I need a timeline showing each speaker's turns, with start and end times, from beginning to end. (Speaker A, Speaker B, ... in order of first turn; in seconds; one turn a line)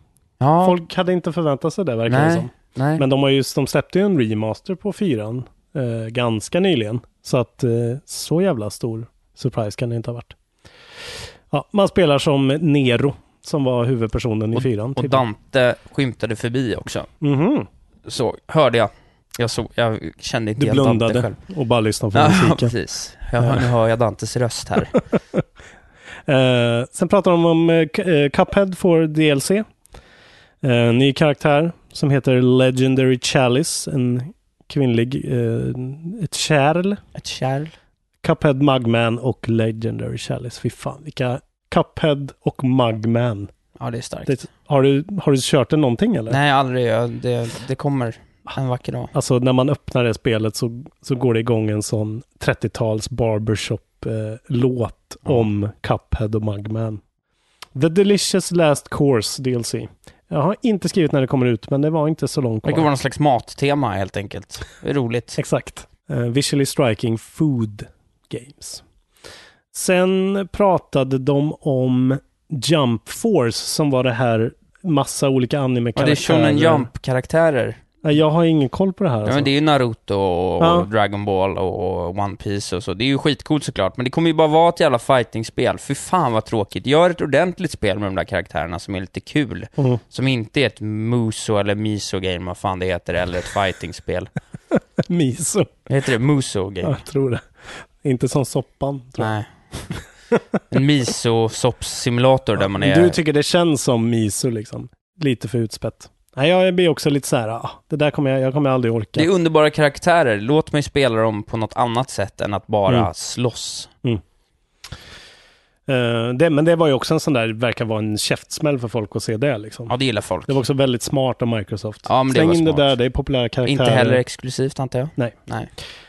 Speaker A: 0.4-0.8
Speaker B: 0.6-10.4
Speaker A: 2.1-3.0
Speaker B: 11.5-15.2
Speaker A: 14.5-17.1
Speaker B: 17.2-17.7
Speaker A: 18.1-21.4
Speaker B: 20.6-22.7
Speaker A: 22.1-25.0
Speaker B: 23.4-23.7
Speaker B: 26.3-29.7
Speaker B: 30.6-37.0
Speaker A: 37.1-37.7
Speaker B: 38.2-43.5
Speaker A: 43.8-44.4
Speaker B: 44.3-46.4
Speaker A: 46.3-49.1
Speaker B: 49.1-57.0
Speaker B: 57.8-62.9
Speaker A: 62.6-65.4
Speaker B: 65.4-68.8
Speaker B: 69.7-76.9
Speaker A: 76.0-77.8
Speaker B: 78.0-79.5
Speaker A: 79.3-94.3
Speaker B: 80.6-80.9
Speaker B: 95.1-95.7
Speaker A: 95.9-97.0
Speaker B: 96.8-97.4
Speaker B: 98.0-99.3
Speaker A: 99.2-99.9
Speaker A: 100.7-103.2
Speaker B: 102.6-109.3
Speaker A: 109.2-113.9
Speaker B: 115.9-119.9
Speaker A: 119.9-120.6
Speaker B: 120.5-124.2
Speaker A: 122.1-122.9
Speaker A: 123.7-125.7